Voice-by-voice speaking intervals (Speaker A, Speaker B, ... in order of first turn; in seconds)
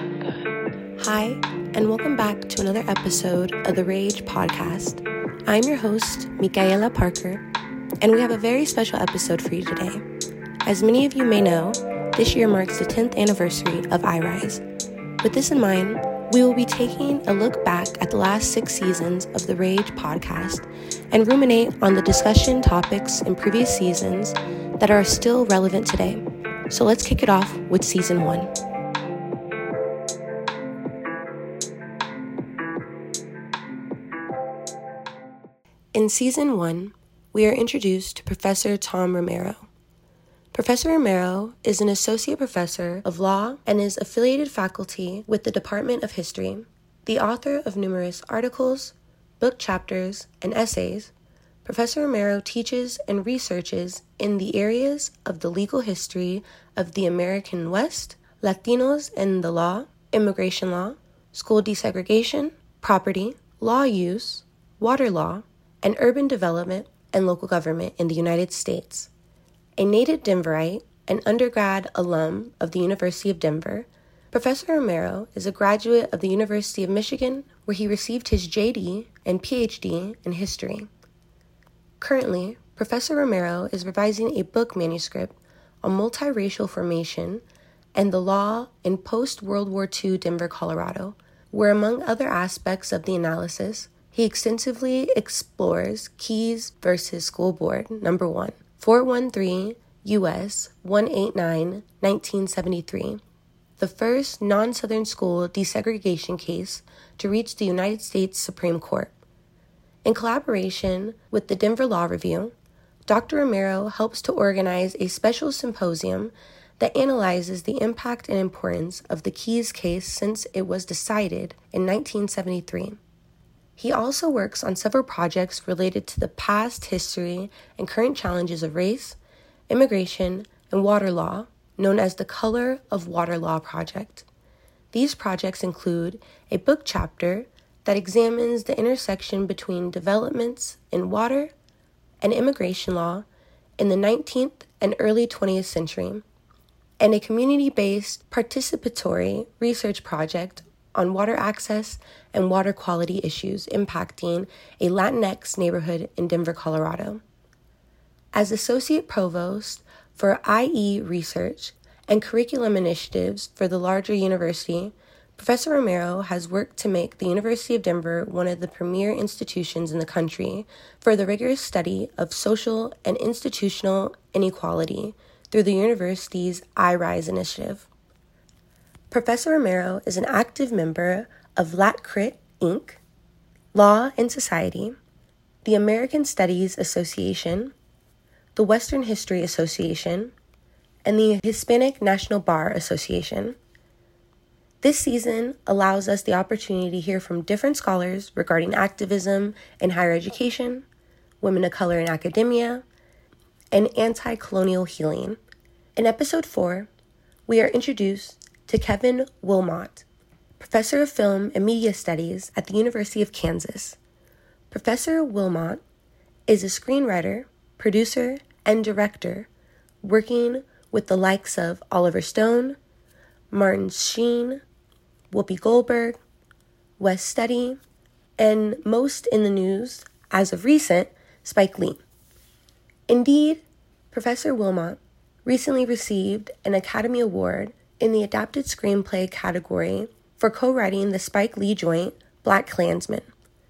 Speaker A: 1.0-7.4, 8.0-10.0, 10.6-14.6, 15.2-28.5, 35.9-39.7, 40.5-51.1, 51.6-69.1, 69.8-80.9, 82.0-87.4, 87.9-103.2, 103.8-109.1, 110.0-112.5, 113.1-123.0, 123.8-129.2, 129.7-134.2, 134.9-141.5, 142.2-143.2, 143.8-146.2, 147.0-157.2, 158.3-177.9, 179.1-183.0, 183.7-185.0, 185.6-187.7, 188.5-190.3, 191.0-193.6, 194.8-200.8, 201.4-202.8, 203.7-205.4, 205.9-206.9, 207.5-210.0, 210.6-214.0, 214.7-215.8, 216.5-219.5, 220.0-222.8, 223.5-224.6, 225.3-226.2, 227.0-227.8, 228.4-232.0, 233.1-243.3